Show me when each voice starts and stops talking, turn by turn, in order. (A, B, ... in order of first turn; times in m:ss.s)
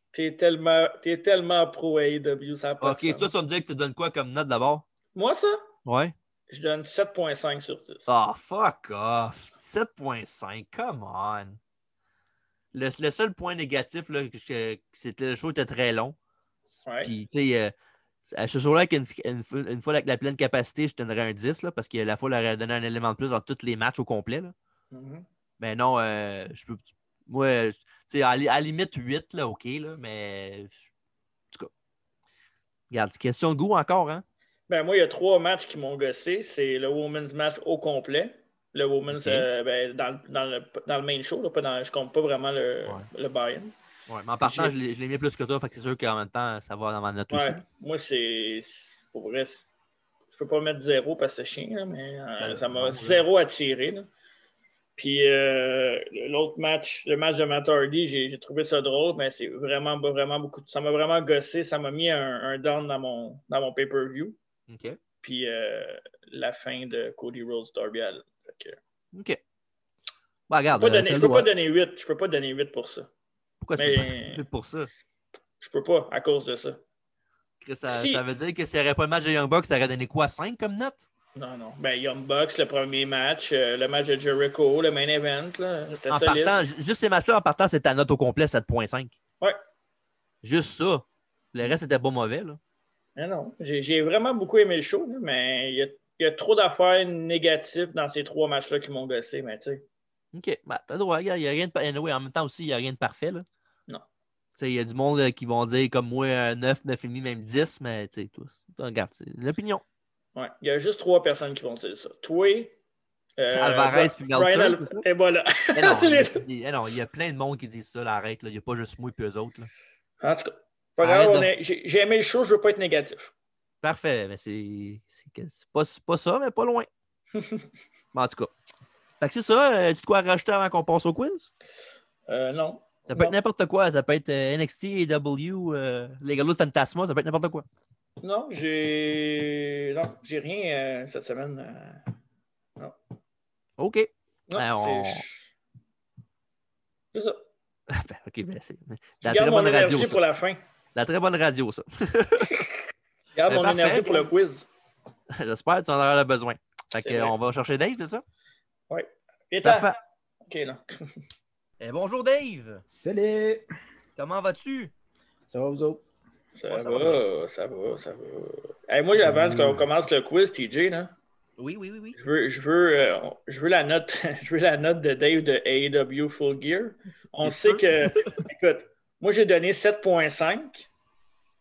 0:00.1-0:03.3 A
0:02.8-0:04.8 B
0:05.1-0:05.6 A
0:05.8-0:06.1 B
0:06.5-0:08.1 A
0:08.1-0:11.6 B
0:12.7-0:16.2 B
0:16.8-0:17.1 A
0:17.0-0:17.7 B
0:18.3-0:24.5 B
0:24.9-0:25.2 A
0:25.6-0:30.9 B
0:32.9-0:34.2 B
0:34.7-0:43.7 A
0:39.1-0:39.5 B
0:44.1-0:47.6 B
0:44.4-0:44.7 A
0:47.3-0:49.6 A
0:50.3-0:54.1 A
0:52.4-0:53.2 B
0:55.0-1:04.4 A
1:04.7-1:05.0 B
1:05.2-1:08.8 A
1:09.1-1:09.4 B
1:10.5-1:11.5 B
1:10.8-1:13.1 A
1:13.6-1:14.9 B
1:13.8-1:14.4 A
1:15.6-1:16.8 A
1:17.6-1:21.0 B
1:17.9-1:18.2 A
1:21.4-1:26.6 A
1:26.0-1:29.1 B
1:30.4-1:32.6 B
1:33.2-1:39.8 A
1:40.3-1:43.4 B
1:44.5-1:49.8 B
1:50.3-1:52.7 A
1:53.4-1:56.4 A
1:53.5-1:55.0 B
1:55.7-1:59.7 B
2:00.2-2:03.3 A
2:01.0-2:01.5 B
2:03.8-2:06.9 B
2:07.3-2:07.7 A
2:08.1-2:08.5 B
2:09.2-2:11.5 B
2:12.3-2:13.3 A
2:13.1-2:17.6 B
2:18.2-2:22.1 A
2:23.8-2:25.2 B
2:24.5-2:25.4 A
2:27.1-2:27.4 A
2:27.9-2:30.2 B
2:29.2-2:30.6 A
2:30.9-2:32.5 B
2:32.4-2:34.7 A
2:33.5-2:34.3 B
2:35.3-2:38.2 B
2:37.0-2:37.3 A
2:38.9-2:39.9 A
2:39.6-2:40.0 B
2:40.4-2:41.2 A
2:41.8-2:42.8 B
2:42.9-2:43.7 C
2:44.2-2:44.9 B
2:45.5-2:46.0 C
2:46.5-2:51.1 A
2:46.7-2:47.2 B
2:49.2-2:49.9 C
2:51.6-2:52.2 B
2:52.2-3:00.9 A
2:57.4-2:58.4 B